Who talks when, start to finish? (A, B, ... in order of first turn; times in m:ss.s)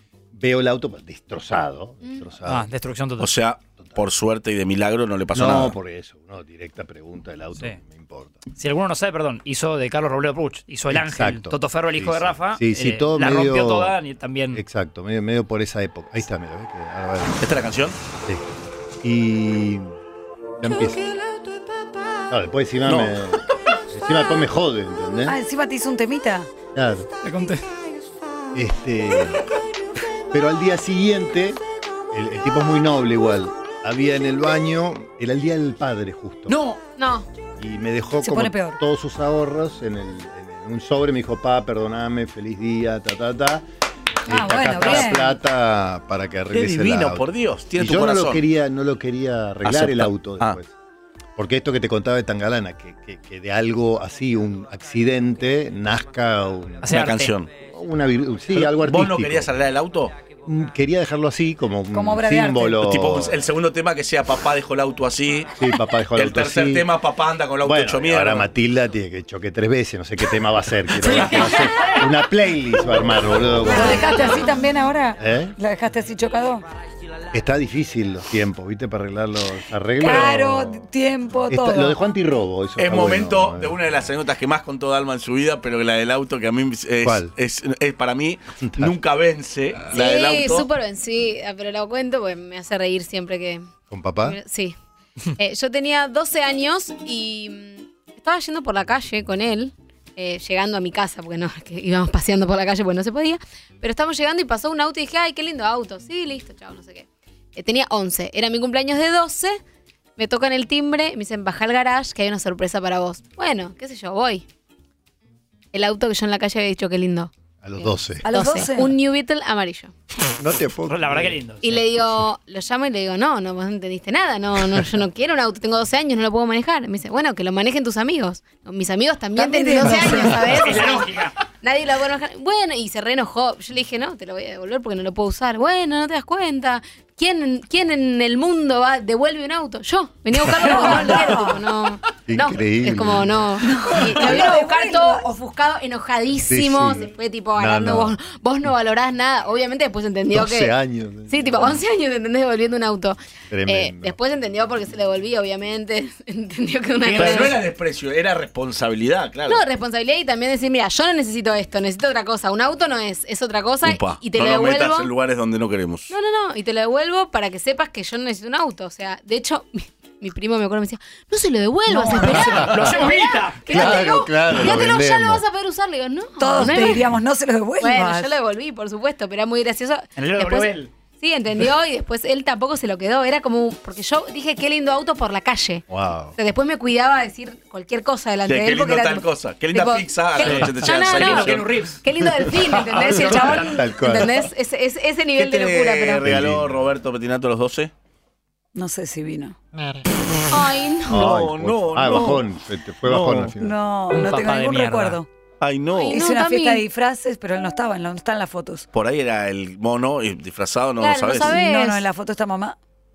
0:00.3-0:02.7 A
0:02.5-0:03.3 B
0:03.2-0:05.8 C
0:05.3-0:08.4 A
0:08.6-0:14.6 B
0:10.9-0:14.0 A
0:14.5-0:17.5 A
0:17.4-0:18.0 C
0:18.2-0:18.4 A
0:19.0-0:20.0 A
0:20.6-0:21.0 A
0:22.3-0:25.4 A
0:22.9-0:23.2 C
0:25.3-0:26.5 D
0:26.8-0:27.1 A
0:27.2-0:27.6 B
0:28.5-0:29.4 A
0:30.3-0:31.6 A
0:32.1-0:36.6 A
0:36.5-0:36.8 B
0:37.0-0:37.3 E
0:37.6-0:43.7 A
0:38.2-0:38.8 D
0:44.3-0:50.7 A
0:44.3-0:45.4 D
0:46.5-0:48.4 C
0:49.6-0:50.6 C
0:51.4-0:56.9 A
0:56.8-0:57.4 B
0:56.9-0:57.5 C
0:57.7-0:59.6 A
0:58.5-1:00.2 C
1:00.4-1:03.4 A
1:01.9-1:02.8 D
1:02.8-1:05.5 C
1:05.5-1:06.9 A
1:06.1-1:08.5 C
1:07.6-1:14.5 A
1:11.0-1:12.0 B
1:13.7-1:16.6 D
1:15.2-1:15.6 A
1:17.3-1:20.9 A
1:20.0-1:22.0 D
1:21.5-1:24.0 A
1:22.8-1:30.7 C
1:27.0-1:27.3 A
1:28.6-1:28.9 A
1:29.9-1:33.7 E
1:33.9-1:34.4 A
1:34.2-1:34.8 E
1:35.4-1:49.6 E
1:50.2-1:54.4 E
1:55.7-1:59.9 E
1:57.6-1:58.2 A
1:58.2-1:58.9 D
2:00.4-2:01.4 A
2:00.9-2:01.6 B
2:01.6-2:11.1 E
2:09.4-2:11.0 D
2:10.6-2:11.3 B
2:11.6-2:30.7 E
2:20.5-2:21.6 D
2:22.3-2:23.5 A
2:23.6-2:25.2 D
2:26.5-2:28.2 A
2:30.3-2:31.8 A
2:31.3-2:37.6 E
2:33.5-2:34.2 A
2:37.1-2:39.6 C
2:37.1-2:37.5 B
2:39.5-2:45.1 E
2:43.8-2:46.1 C
2:46.1-2:57.0 E
2:51.9-2:52.4 D
2:52.1-2:54.0 B
2:52.3-2:53.0 A
2:53.7-2:55.4 A
2:56.4-2:58.3 D
2:56.6-2:57.1 A
2:57.8-3:05.8 E
3:00.2-3:00.9 B
3:05.9-3:06.4 A
3:06.4-3:16.3 E
3:08.4-3:11.7 C
3:10.4-3:12.0 B
3:12.6-3:13.9 B
3:12.9-3:14.5 A
3:15.4-3:17.9 C
3:16.2-3:16.9 A
3:18.8-3:19.6 D
3:20.5-3:21.3 E
3:21.1-3:24.0 A
3:21.1-3:22.5 C
3:23.0-3:23.5 C
3:23.6-3:25.3 D
3:24.1-3:25.2 B
3:25.6-3:26.2 C
3:25.9-3:26.8 E
3:26.1-3:28.9 D
3:28.9-3:31.5 C
3:31.0-3:32.0 E
3:31.4-3:32.8 D